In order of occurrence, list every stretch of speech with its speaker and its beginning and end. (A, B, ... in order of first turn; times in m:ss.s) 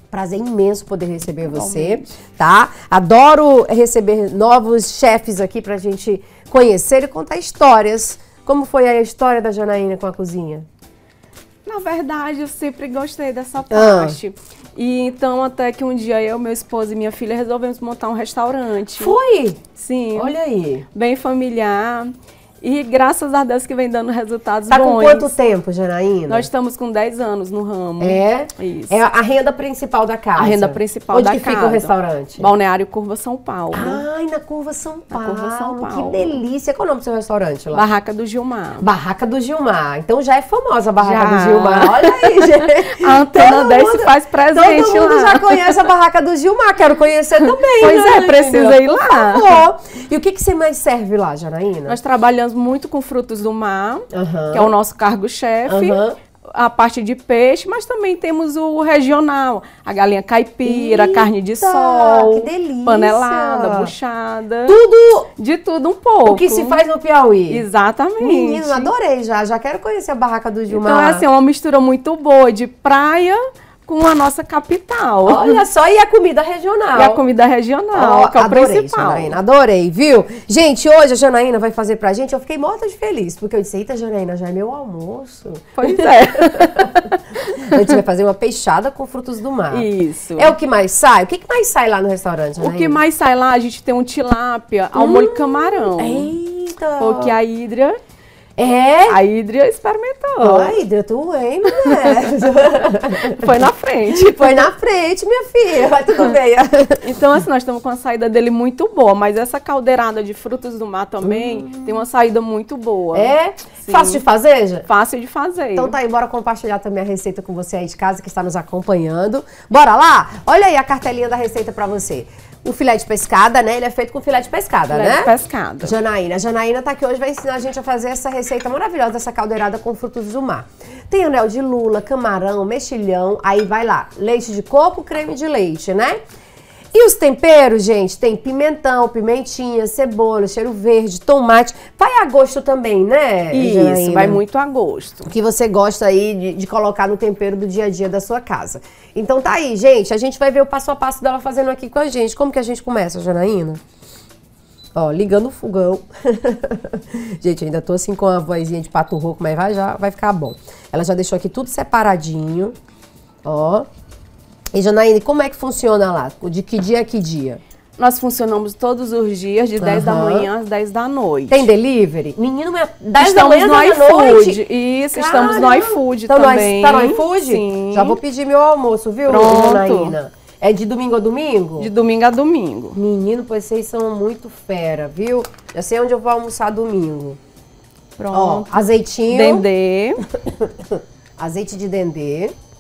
0:00.1-0:10.7 A
0:01.5-0:02.2 B
0:11.6-0:19.2 B
0:13.7-0:14.2 A
0:19.0-0:19.6 A
0:19.8-0:20.3 B
0:20.2-0:20.9 A
0:20.9-0:25.3 B
0:24.7-0:26.5 A
0:26.3-0:29.0 B
0:28.0-0:32.5 A
0:30.4-0:34.0 B
0:33.7-0:37.8 A
0:35.1-0:36.4 B
0:37.7-0:38.9 B
0:38.8-0:52.0 A
0:41.0-0:45.9 B
0:47.4-0:49.6 B
0:51.9-0:56.0 B
0:54.1-0:54.7 A
0:55.7-0:56.2 A
0:56.5-1:04.8 B
1:00.6-1:03.9 A
1:04.7-1:05.3 A
1:05.4-1:06.8 B
1:06.2-1:07.6 A
1:07.5-1:08.9 B
1:08.2-1:11.2 A
1:10.7-1:15.6 B
1:15.3-1:17.2 A
1:17.0-1:19.4 B
1:17.9-1:33.0 A
1:25.8-1:27.9 B
1:29.7-1:30.6 B
1:32.6-1:36.3 B
1:35.0-1:37.3 A
1:37.0-1:38.0 B
1:38.6-1:39.2 A
1:39.1-1:40.8 B
1:40.4-1:43.5 A
1:41.7-1:42.4 B
1:43.3-1:44.7 B
1:44.1-1:47.0 A
1:47.0-1:54.2 B
1:51.2-1:52.0 A
1:53.1-1:54.9 A
1:54.9-1:56.0 B
1:55.8-2:16.2 A
2:04.9-2:06.0 B
2:16.9-2:24.4 A
2:23.5-2:25.3 B
2:25.2-2:33.8 A
2:35.0-2:42.8 A
2:43.4-2:43.9 A
2:44.7-2:47.6 A
2:48.0-2:51.7 B
2:49.8-2:50.5 A
2:51.5-3:01.9 A
2:53.2-2:58.2 B
2:59.3-3:00.2 B
3:01.8-3:03.0 B
3:02.9-3:07.4 A
3:08.2-3:08.8 B
3:08.3-3:09.6 A
3:09.3-3:10.2 B
3:10.3-3:12.5 A